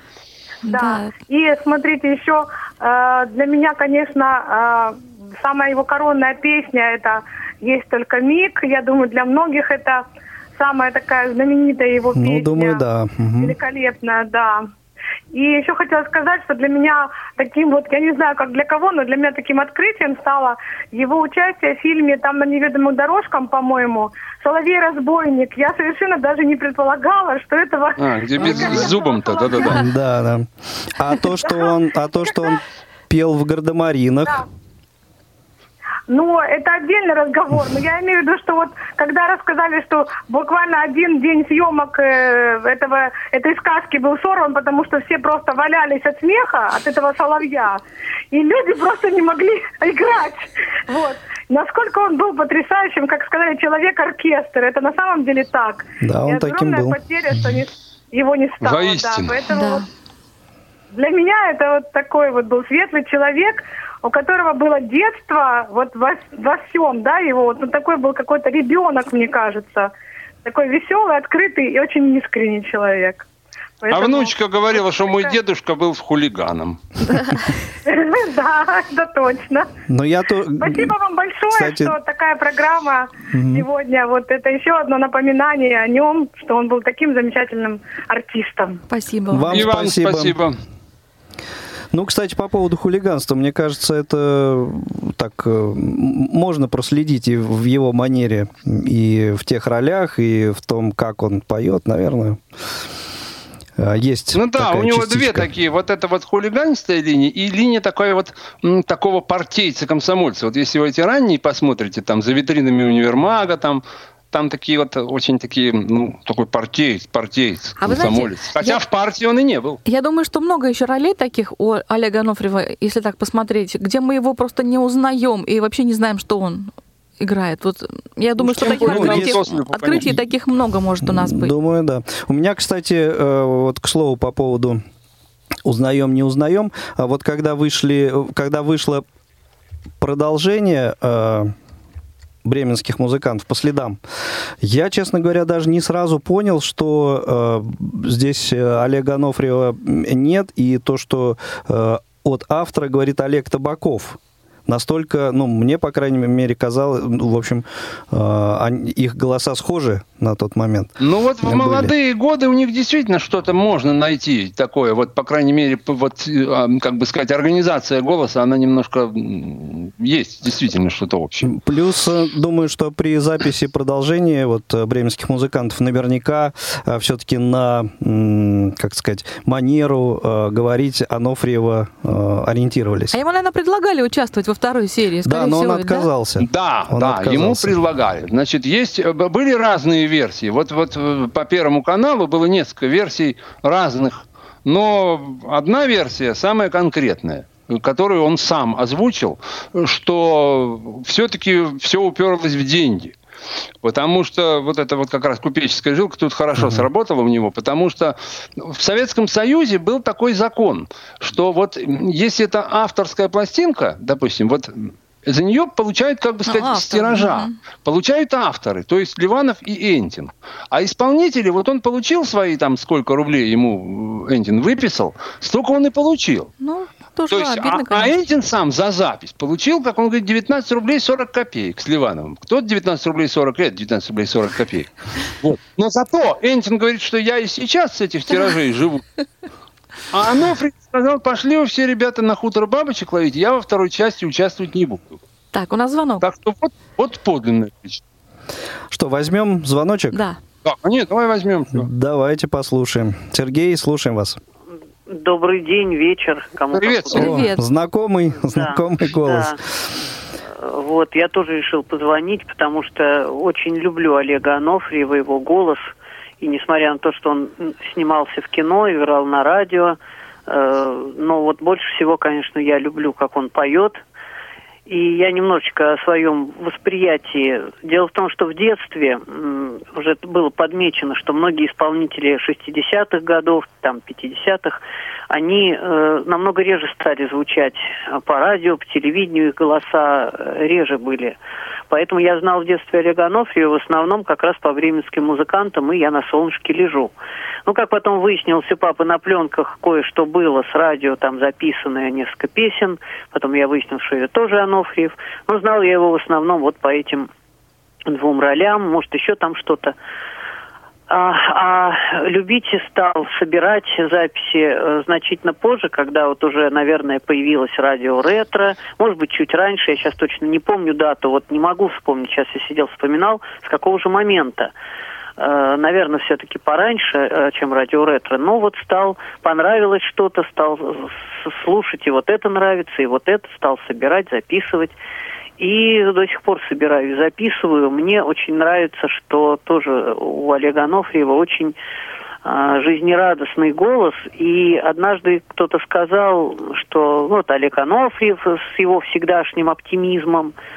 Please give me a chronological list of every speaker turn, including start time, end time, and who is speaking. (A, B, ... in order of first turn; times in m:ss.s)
0:00.6-0:01.1 A
0:00.7-0:10.0 B
0:10.6-0:12.8 B
0:12.1-0:13.6 C
0:13.4-0:14.7 B
0:15.3-0:29.8 B
0:28.0-0:29.8 D
0:29.6-0:34.4 C
0:36.1-0:47.8 B
0:48.3-0:59.8 B
0:56.0-0:57.0 C
0:58.6-0:59.4 D
0:59.5-0:59.9 A
1:01.0-1:09.9 B
1:10.4-1:13.3 B
1:13.8-1:15.3 B
1:13.9-1:16.8 D
1:17.9-1:19.7 B
1:19.9-1:20.9 C
1:20.6-1:28.8 B
1:21.5-1:22.0 C
1:23.3-1:23.6 C
1:28.9-1:29.7 A
1:29.3-1:30.4 C
1:29.5-1:30.6 D
1:31.9-1:42.4 C
1:43.8-1:45.5 C
1:44.3-1:59.8 D
1:57.8-1:58.8 A
1:59.8-2:11.6 A
2:08.4-2:10.2 D
2:08.8-2:09.4 C
2:11.0-2:14.8 C
2:15.6-2:19.0 C
2:20.0-2:21.5 C
2:22.4-2:24.0 C
2:24.6-2:41.9 C
2:41.0-2:51.5 D
2:51.4-3:03.2 C
3:03.1-3:06.1 A
3:05.2-3:07.8 C
3:06.4-3:23.2 D
3:23.8-3:46.5 D
3:26.6-3:26.9 C
3:36.5-3:37.6 A
3:46.6-3:48.2 A
3:47.3-3:59.0 D
4:00.1-4:05.2 D
4:05.5-4:06.3 A
4:06.2-4:08.0 D
4:08.9-4:10.2 C
4:10.1-4:10.4 A
4:10.6-4:11.9 D
4:11.7-4:14.4 C
4:15.1-4:17.3 E
4:16.7-4:17.4 D
4:17.1-4:19.6 C
4:17.1-4:17.7 A
4:18.4-4:19.6 E
4:20.6-4:34.0 E
4:34.9-4:51.4 E
4:51.9-4:57.1 E
4:57.7-5:07.3 E
5:08.1-5:10.0 E
5:11.1-5:24.7 E
5:25.4-5:35.0 E
5:35.6-5:41.8 E
5:42.4-5:50.6 E